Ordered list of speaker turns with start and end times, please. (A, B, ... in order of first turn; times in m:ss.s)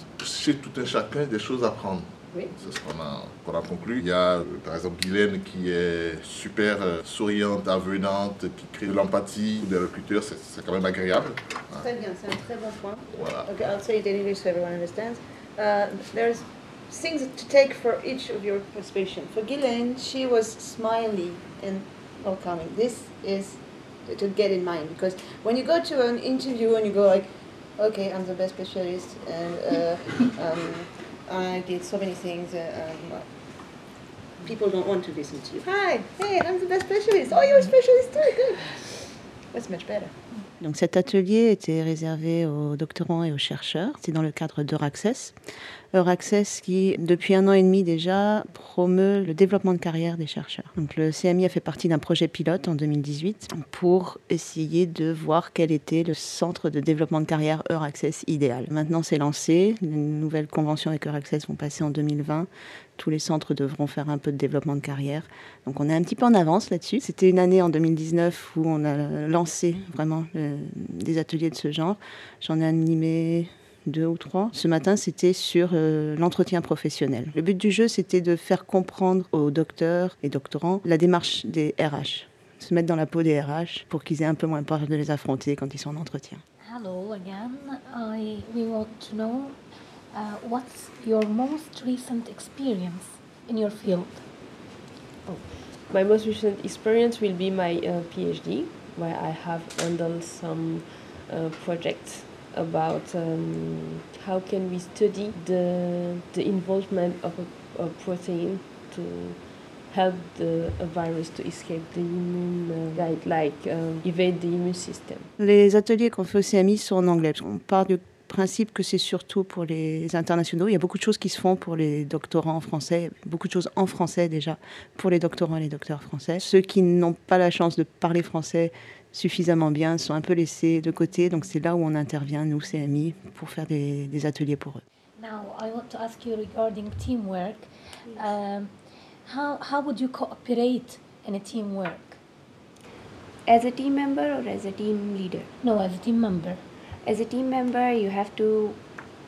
0:00.2-0:11.9 A
0:11.7-0:33.3 B
0:13.1-0:13.6 A
0:34.4-0:38.8 B
0:39.5-0:40.1 B
0:40.6-0:45.4 C
0:45.9-1:26.4 C
1:26.6-1:29.6 D
1:30.1-1:34.2 D
1:35.2-1:55.3 E
1:55.4-2:14.8 C
2:15.2-2:18.7 D
2:19.3-2:22.2 D
2:23.5-2:25.5 F
2:25.6-2:26.6 D
2:27.0-2:28.8 F